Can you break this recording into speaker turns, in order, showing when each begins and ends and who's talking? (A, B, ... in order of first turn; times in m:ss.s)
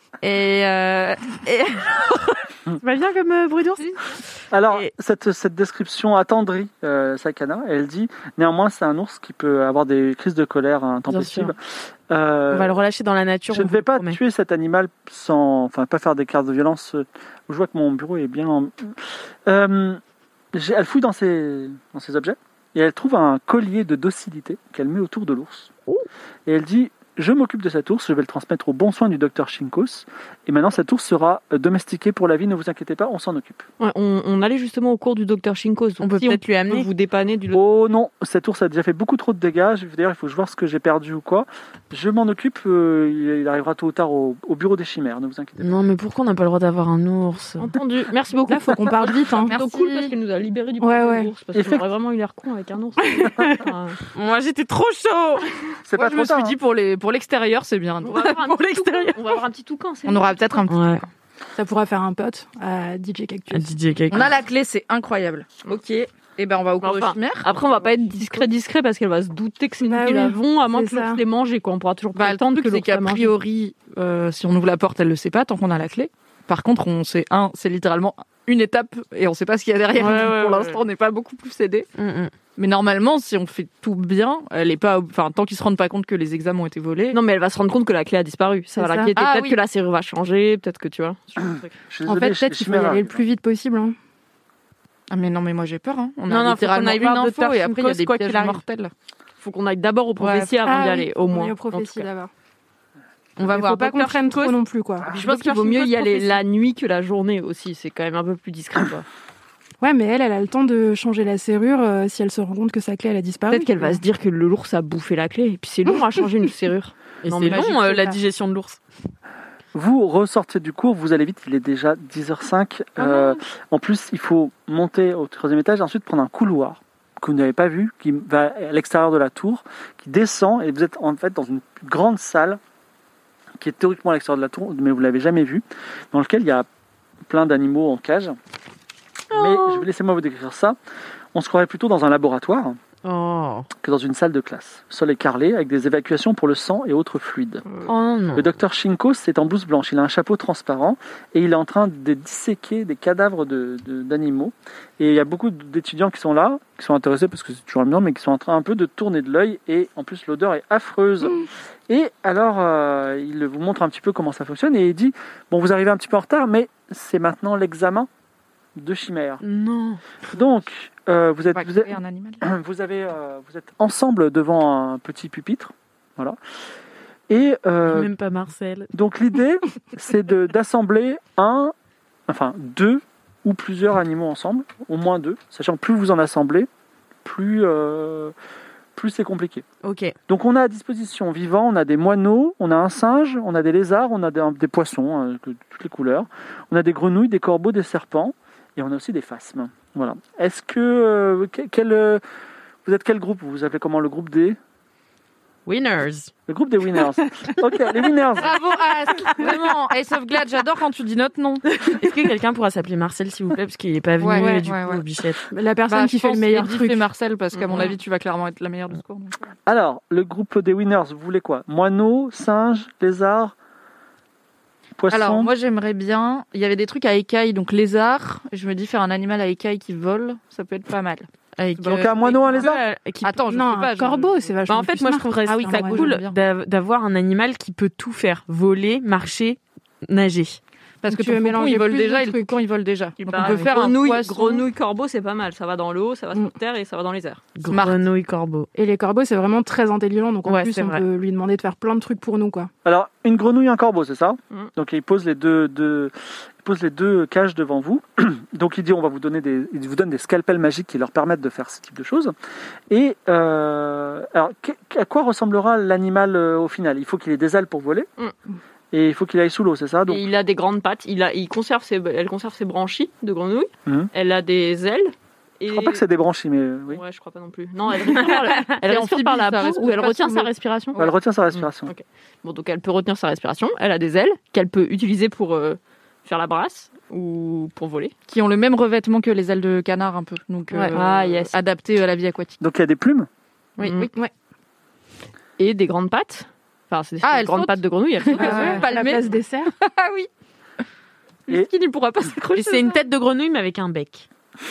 0:00.2-0:04.1 A
0:04.5-0:11.6 B
0:11.1-0:11.5 A
0:12.1-0:12.8 B
0:12.5-0:14.2 A
0:13.5-0:20.0 B
0:20.5-0:25.7 B
0:26.5-0:33.6 B
0:33.8-0:37.6 C
0:36.0-0:36.9 A
0:37.5-0:45.8 B
0:45.6-0:47.7 A
0:47.6-0:54.0 C
0:48.5-0:49.6 D
0:49.3-0:50.2 E
0:50.8-0:51.3 D
0:51.5-0:51.8 B
0:53.1-0:53.5 D
0:54.1-0:55.5 A
0:55.9-0:56.6 B
0:56.0-0:58.3 E
0:58.0-1:00.7 C
0:58.2-0:59.4 A
1:00.1-1:00.8 E
1:00.7-1:01.0 A
1:01.6-1:03.7 D
1:03.5-1:04.4 A
1:04.1-1:05.6 E
1:05.7-1:06.1 C
1:06.4-1:08.4 E
1:06.8-1:13.4 C
1:09.8-1:11.2 D
1:12.2-1:21.9 E
1:20.0-1:20.8 A
1:22.0-1:22.3 A
1:22.6-1:27.2 E
1:27.1-1:31.8 C
1:28.8-1:29.1 D
1:29.2-1:29.6 E
1:31.9-1:33.3 B
1:32.1-1:34.0 D
1:35.1-1:38.9 E
1:36.3-1:38.6 A
1:39.4-1:42.1 C
1:40.2-1:42.3 D
1:43.4-1:44.6 A
1:43.4-1:45.1 D
1:45.1-1:49.1 C
1:45.2-1:46.4 A
1:49.8-1:54.0 D
1:53.5-1:58.0 C
1:57.2-1:58.8 A
1:59.7-2:12.6 B
2:13.6-2:16.7 B
2:17.3-2:18.4 B
2:19.3-2:19.8 A
2:19.3-2:20.8 B
2:21.3-2:22.8 B
2:23.0-2:23.7 A
2:23.8-2:27.7 B
2:27.9-2:28.5 A
2:28.4-2:48.1 B
2:48.8-2:49.4 B
2:49.4-2:50.0 A
2:50.3-2:56.4 B
2:51.5-2:52.4 E
2:57.3-2:58.1 B
2:57.9-2:58.9 A
2:58.9-3:01.7 B
3:02.3-3:06.7 B
3:07.2-3:08.3 B
3:09.0-3:09.7 B
3:09.8-3:10.1 A
3:10.3-3:22.2 B
3:22.8-3:24.6 B
3:25.7-3:26.3 A
3:26.5-3:28.5 B
3:28.4-3:31.8 E
3:31.8-3:35.4 A
3:34.2-3:35.0 E
3:34.4-3:34.7 D
3:35.5-3:37.1 D
3:35.9-3:39.4 E
3:37.5-3:37.9 C
3:39.7-3:43.6 B
3:45.0-3:45.5 B
3:45.1-3:51.3 E
3:51.6-3:53.4 A
3:51.8-3:52.8 B
3:53.2-3:54.5 E
3:53.5-3:56.1 D
3:54.7-4:00.6 A
3:55.6-3:56.4 E
4:01.0-4:04.7 E
4:01.1-4:02.5 D
4:03.2-4:07.5 C
4:03.4-4:03.7 A
4:07.6-4:08.7 A
4:07.7-4:08.0 E
4:08.7-4:12.7 D
4:10.4-4:11.0 A
4:12.8-4:22.3 B
4:22.9-4:28.1 B
4:28.9-4:30.2 B
4:30.1-4:36.0 C
4:35.7-4:37.0 B
4:36.9-4:48.1 C
4:38.6-4:40.5 E
4:41.0-4:41.9 B
4:48.3-4:52.6 E
4:50.9-4:51.6 C
4:52.6-4:53.3 B
4:53.8-4:54.1 C
4:55.6-4:59.0 C
4:57.2-5:00.3 E
4:58.3-4:59.7 D
5:01.5-5:03.0 E
5:02.6-5:04.3 A